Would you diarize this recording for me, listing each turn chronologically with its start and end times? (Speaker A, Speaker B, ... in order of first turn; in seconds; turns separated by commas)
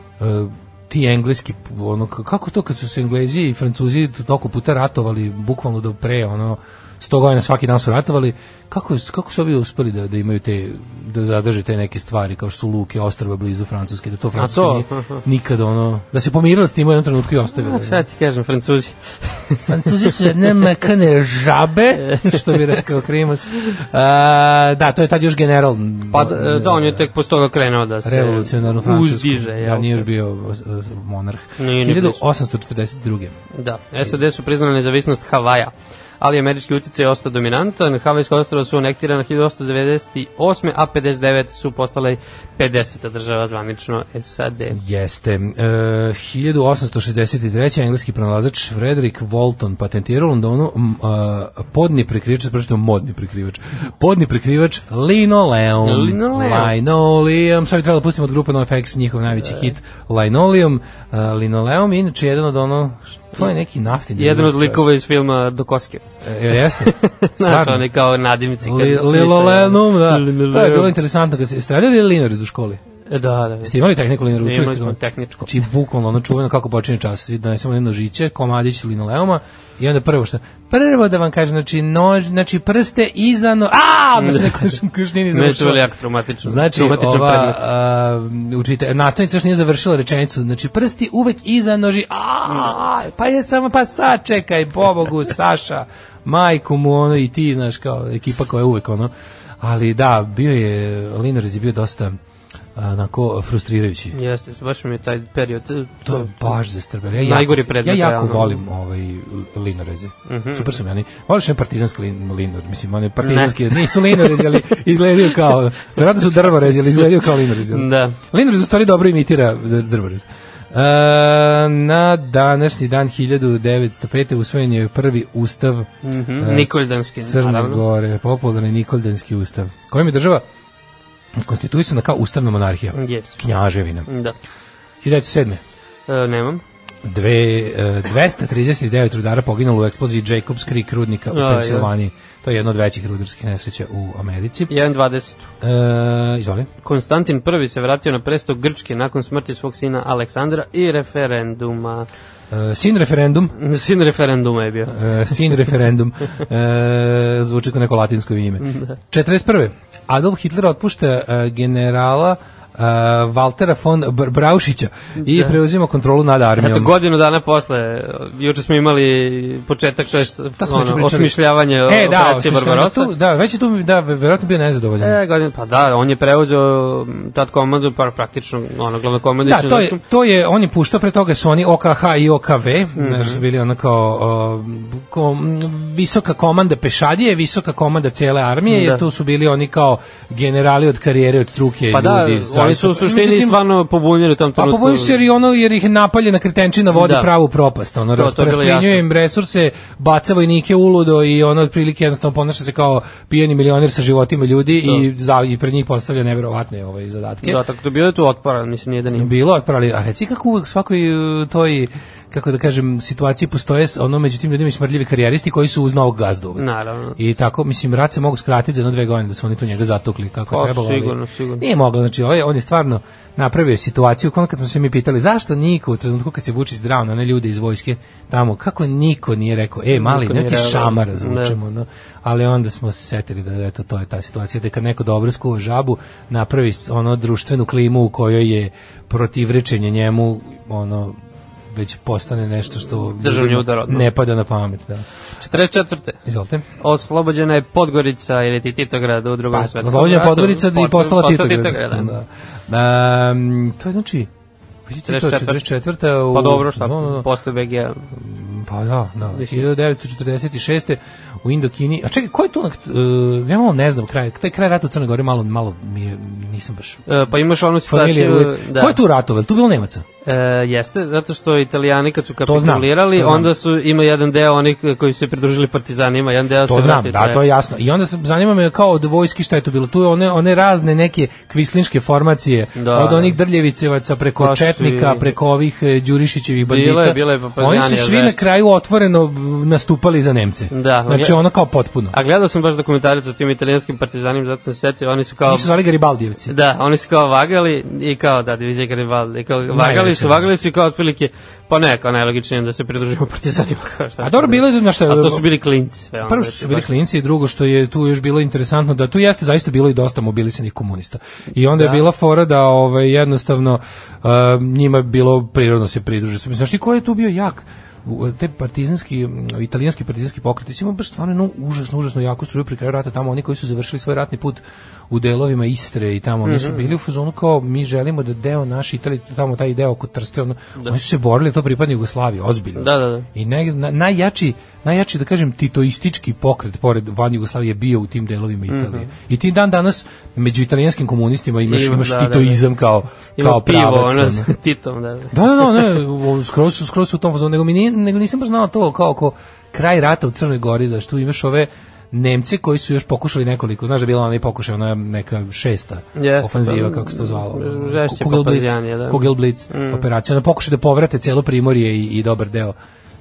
Speaker A: 0.2-18.0, Speaker B: 14.3-15.2, Speaker B: 17.6-20.1, Speaker A: 19.7-27.1, Speaker B: 22.0-22.8, Speaker B: 26.1-30.0, Speaker A: 28.0-33.4, Speaker B: 31.6-32.2, Speaker B: 33.5-44.8, Speaker A: 44.7-64.8, Speaker B: 55.8-56.7, Speaker B: 64.2-66.0, Speaker A: 66.2-67.9, Speaker B: 66.8-70.9, Speaker A: 68.6-72.8, Speaker B: 73.1-73.7, Speaker A: 73.6-85.8, Speaker B: 74.4-75.5, Speaker B: 84.2-84.7, Speaker B: 85.3-87.6, Speaker A: 86.4-102.2, Speaker A: 102.8-104.2, Speaker B: 104.1-106.5, Speaker A: 106.0-130.4, Speaker B: 107.2-108.6, Speaker B: 110.3-110.7, Speaker B: 113.2-114.4, Speaker B: 117.7-118.2, Speaker B: 126.0-127.8, Speaker A: 131.3-134.1, Speaker B: 132.9-133.4, Speaker B: 134.1-134.3, Speaker A: 135.0-135.6, Speaker B: 136.1-136.6, Speaker A: 137.0-144.7, Speaker B: 141.3-141.9, Speaker B: 144.7-145.5, Speaker A: 145.6-146.7, Speaker B: 146.8-152.1, Speaker A: 152.5-153.5, Speaker B: 153.6-154.9, Speaker A: 154.9-166.9, Speaker B: 158.6-159.0, Speaker B: 165.2-165.6, Speaker B: 166.6-173.1, Speaker A: 170.1-175.2, Speaker B: 175.0-180.0, Speaker A: 179.4-193.6, Speaker B: 183.0-183.4, Speaker B: 188.7-189.0, Speaker B: 191.9-195.1, Speaker A: 194.6-207.6, Speaker B: 196.9-197.3, Speaker B: 198.1-199.0, Speaker B: 207.4-209.3, Speaker A: 209.1-241.2, Speaker B: 216.6-217.2, Speaker B: 220.5-221.6, Speaker B: 229.9-231.6, Speaker A: 241.7-245.1, Speaker B: 243.0-244.1, Speaker B: 245.4-246.2, Speaker A: 246.2-246.7, Speaker B: 246.8-252.2, Speaker A: 249.5-254.3, Speaker A: 254.9-257.2, Speaker B: 255.1-255.6, Speaker B: 256.3-258.1, Speaker A: 258.1-267.1, Speaker B: 259.3-259.7, Speaker B: 267.1-269.0, Speaker A: 267.8-270.0, Speaker B: 270.2-277.4, Speaker A: 272.4-273.5, Speaker A: 276.6-292.1, Speaker B: 282.8-283.4, Speaker B: 284.4-285.3, Speaker B: 286.6-288.4, Speaker B: 290.7-291.4, Speaker B: 292.1-295.7, Speaker A: 295.4-296.5, Speaker B: 296.5-306.9, Speaker A: 299.7-300.5, Speaker A: 304.2-305.5, Speaker A: 306.2-344.5, Speaker B: 311.7-312.0, Speaker B: 326.4-326.9, Speaker B: 332.8-333.2, Speaker B: 338.7-339.1, Speaker B: 341.7-342.6, Speaker B: 343.4-345.9, Speaker A: 345.3-362.7, Speaker B: 356.1-360.0